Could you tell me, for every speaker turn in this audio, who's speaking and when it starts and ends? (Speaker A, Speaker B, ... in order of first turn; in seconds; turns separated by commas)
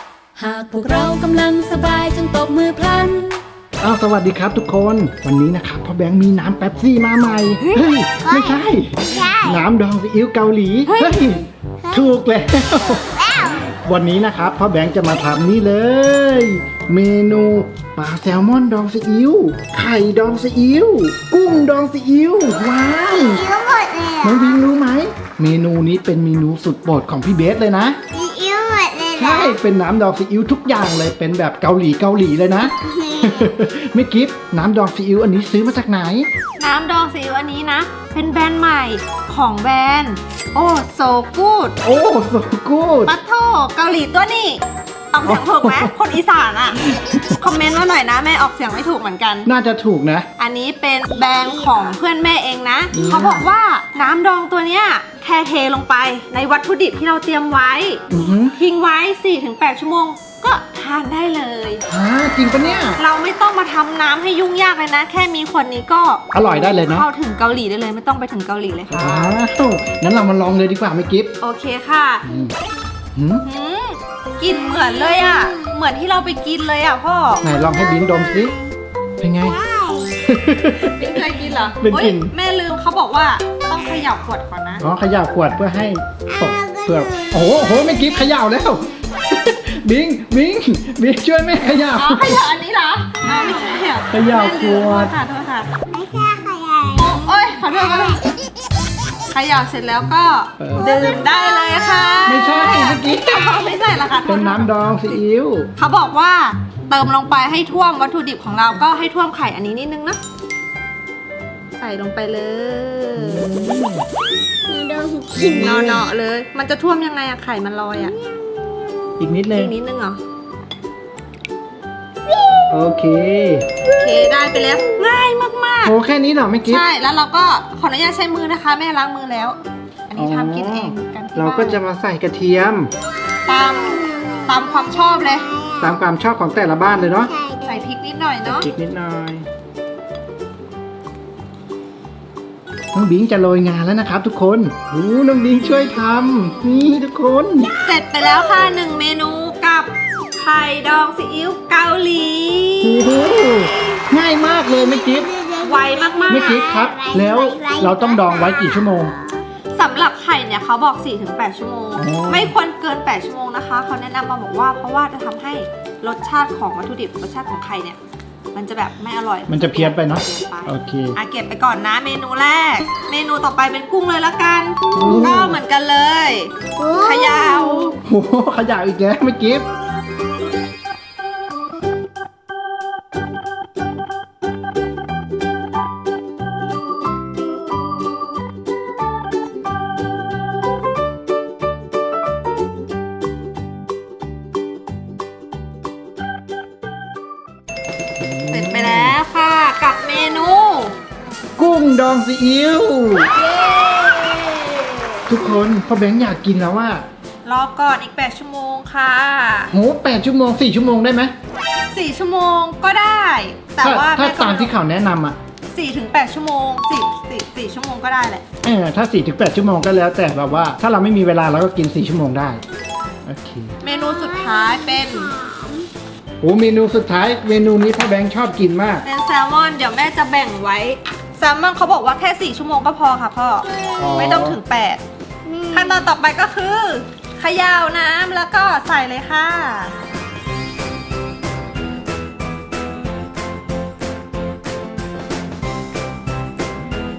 Speaker A: 0.3-3.4, Speaker B: 3.8-23.5, Speaker C: 8.2-8.5, Speaker C: 9.2-9.5, Speaker D: 10.9-11.3, Speaker C: 23.2-24.4, Speaker B: 24.2-28.0, Speaker C: 28.1-29.6, Speaker B: 29.1-36.3, Speaker C: 33.0-33.4, Speaker D: 36.6-41.8, Speaker B: 41.8-43.1, Speaker D: 43.0-49.5, Speaker B: 45.2-45.9, Speaker B: 49.5-50.2, Speaker D: 50.4-58.0, Speaker B: 52.9-53.5, Speaker B: 58.1-58.5, Speaker D: 58.5-61.8, Speaker B: 61.9-63.0, Speaker D: 62.8-69.3, Speaker B: 66.3-67.1, Speaker B: 68.9-71.3, Speaker D: 71.4-72.2, Speaker B: 72.2-72.5, Speaker B: 73.1-73.5, Speaker D: 73.4-77.5, Speaker B: 77.4-78.6, Speaker B: 79.2-79.6, Speaker B: 80.2-81.2, Speaker D: 80.8-84.8, Speaker B: 81.8-82.3, Speaker B: 84.8-92.4, Speaker D: 92.0-95.7, Speaker B: 94.1-95.1, Speaker C: 95.9-97.1, Speaker D: 97.0-98.3, Speaker D: 99.3-104.7, Speaker B: 100.6-101.2, Speaker B: 102.2-103.5, Speaker B: 104.2-105.7, Speaker D: 105.8-110.2, Speaker D: 111.8-113.7, Speaker B: 113.2-114.0, Speaker C: 114.7-115.5, Speaker B: 115.4-116.0, Speaker D: 115.5-118.2, Speaker B: 119.2-119.7, Speaker D: 119.5-120.2, Speaker B: 122.7-123.7, Speaker D: 123.9-126.0, Speaker B: 125.8-126.8, Speaker D: 126.7-131.8, Speaker B: 130.2-132.9, Speaker D: 133.4-135.5, Speaker B: 135.8-137.3, Speaker D: 137.6-138.7, Speaker B: 138.4-139.4, Speaker B: 142.9-147.7, Speaker D: 147.8-153.1, Speaker B: 152.8-155.3, Speaker C: 155.1-158.7, Speaker D: 155.6-156.6, Speaker B: 156.3-159.1, Speaker D: 159.7-168.0, Speaker B: 162.0-162.5, Speaker D: 168.5-178.0, Speaker B: 169.5-171.2, Speaker B: 174.9-175.6, Speaker B: 178.0-179.7, Speaker B: 198.2-199.2, Speaker D: 198.5-200.9, Speaker B: 201.6-203.4, Speaker D: 203.4-204.8, Speaker B: 205.3-207.1, Speaker D: 207.4-209.7, Speaker B: 209.7-211.3, Speaker D: 211.9-214.7, Speaker B: 213.8-215.4, Speaker D: 215.7-218.4, Speaker B: 218.6-222.6, Speaker B: 223.2-223.7, Speaker D: 223.8-225.3, Speaker B: 226.4-229.0, Speaker D: 229.0-235.0, Speaker B: 234.0-234.6, Speaker D: 235.7-239.9